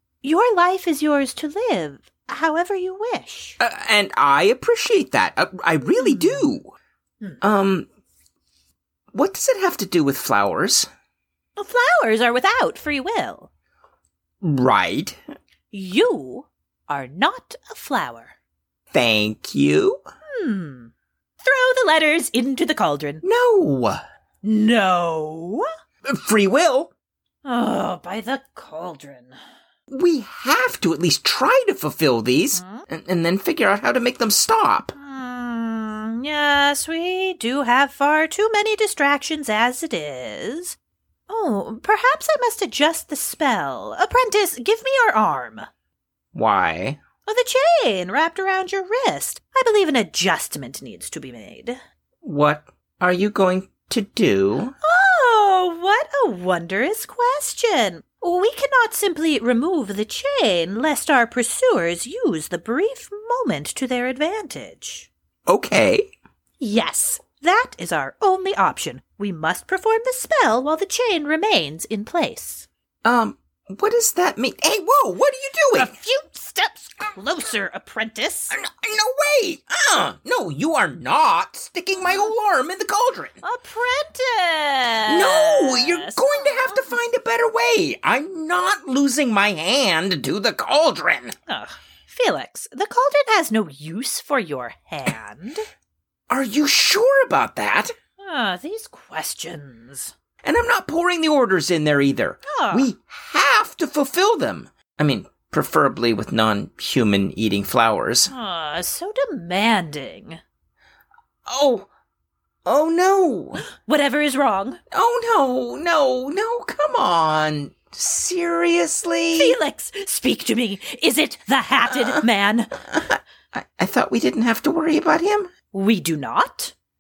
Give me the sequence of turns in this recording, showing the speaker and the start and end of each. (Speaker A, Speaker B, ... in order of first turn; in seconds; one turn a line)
Speaker A: 0.2-3.6
Speaker B: 3.6-6.7
Speaker A: 5.8-6.6
Speaker B: 7.4-7.9
Speaker B: 9.1-10.9
Speaker A: 11.6-13.5
Speaker B: 14.4-15.2
Speaker A: 15.7-18.3
Speaker B: 18.9-20.0
Speaker A: 20.4-23.2
Speaker B: 23.2-24.0
Speaker A: 24.4-25.7
Speaker B: 26.1-26.9
Speaker A: 27.4-29.4
Speaker B: 29.9-35.0
Speaker A: 32.5-32.9
Speaker A: 35.0-40.8
Speaker A: 41.3-45.7
Speaker B: 46.3-47.0
Speaker A: 47.2-51.8
Speaker B: 52.2-54.8
Speaker A: 54.8-65.1
Speaker B: 65.5-66.1
Speaker A: 66.6-72.7
Speaker B: 73.0-76.0
Speaker A: 75.8-78.5
Speaker B: 78.5-83.4
Speaker A: 82.0-82.3
Speaker A: 83.4-87.0
Speaker B: 85.1-91.3
Speaker A: 91.5-95.6
Speaker B: 96.3-97.9
Speaker A: 98.2-100.1
Speaker B: 100.4-108.3
Speaker A: 102.5-102.9
Speaker A: 108.3-110.4
Speaker B: 111.5-111.9
Speaker B: 112.7-113.7
Speaker A: 113.6-114.8
Speaker B: 114.9-119.6
Speaker A: 119.3-122.8
Speaker B: 121.9-122.2
Speaker B: 122.8-125.5
Speaker A: 125.7-126.7